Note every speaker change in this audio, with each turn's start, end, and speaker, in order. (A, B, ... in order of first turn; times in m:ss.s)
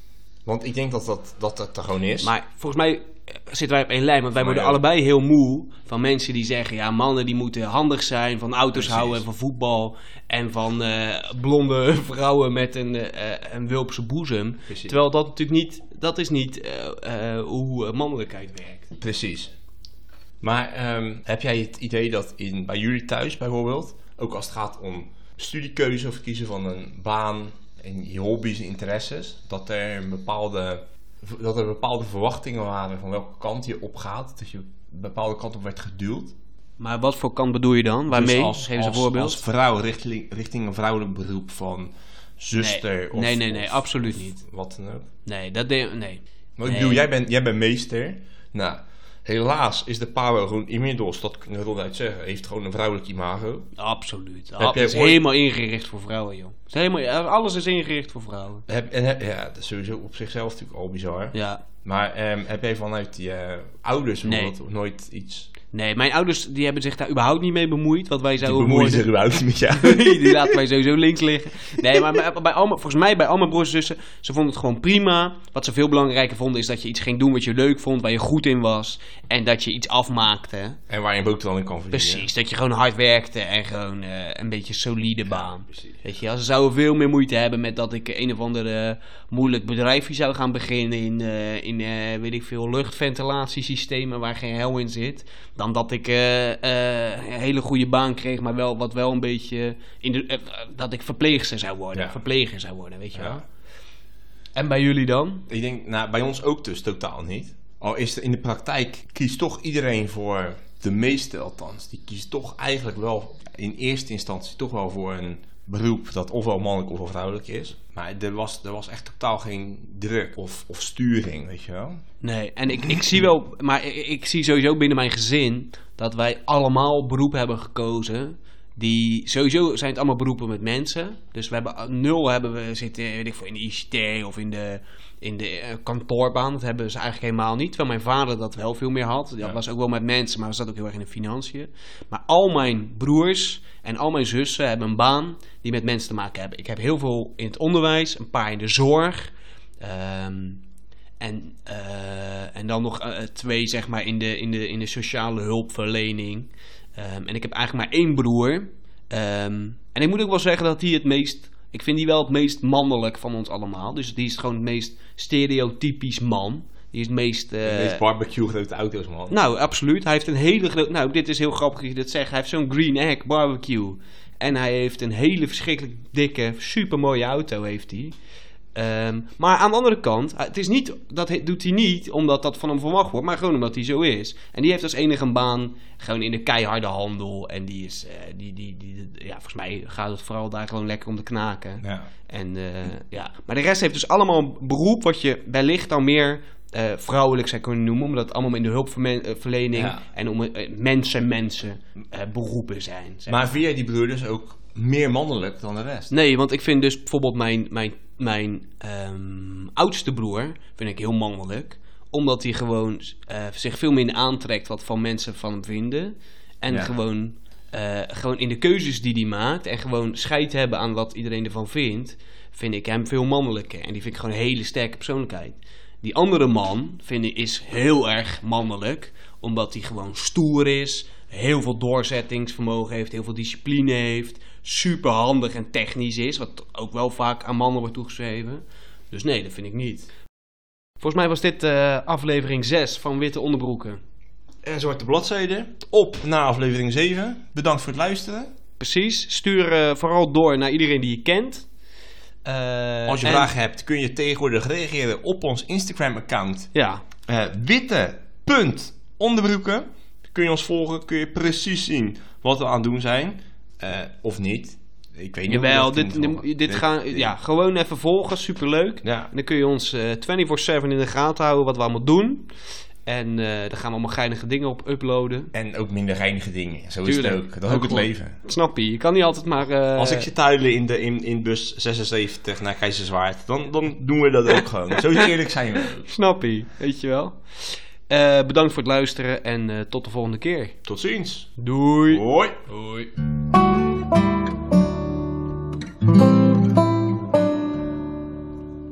0:00.5-0:02.3 A
0:02.2-0:18.9 B
0:04.4-0:04.8 A
0:08.7-0:09.2 A
0:14.7-0:15.0 A
0:19.0-0:19.5 A
0:20.4-0:36.4 A
0:36.8-0:39.4 B
0:38.1-0:45.1 A
0:42.6-0:44.4 B
0:45.3-0:47.1 B
0:46.6-0:53.7 A
0:53.8-0:58.7 B
0:54.6-0:55.2 A
0:58.7-1:05.5 A
1:01.3-1:01.6 B
1:04.3-1:04.5 B
1:05.7-1:09.1 B
1:08.4-1:10.6 A
1:09.7-1:20.8 B
1:20.9-1:22.3 A
1:21.9-1:43.4 B
1:25.3-1:26.0 A
1:43.2-1:43.4 A
1:44.6-1:45.5 B
1:45.5-2:02.0 A
2:02.2-2:30.6 B
2:31.2-2:48.0 B
2:47.6-2:49.4 A
2:49.3-2:58.2 B
2:58.8-3:23.6 B
3:11.8-3:12.1 A
3:19.8-3:20.0 A
3:23.3-3:26.1 A
3:26.1-4:00.1 B
4:01.0-4:04.0 B
4:04.6-4:08.5 A
4:08.8-4:11.7 B
4:12.4-4:13.5 B
4:13.1-4:16.7 A
4:16.7-4:17.0 B
4:17.3-4:27.3 A
4:25.5-4:32.5 B
4:29.0-4:29.3 A
4:33.1-4:35.5 B
4:35.5-4:38.4 A
4:37.0-4:40.3 B
4:40.0-4:46.1 A
4:46.1-4:50.8 B
4:50.9-4:51.6 A
4:51.6-4:53.1 B
4:52.1-4:52.6 A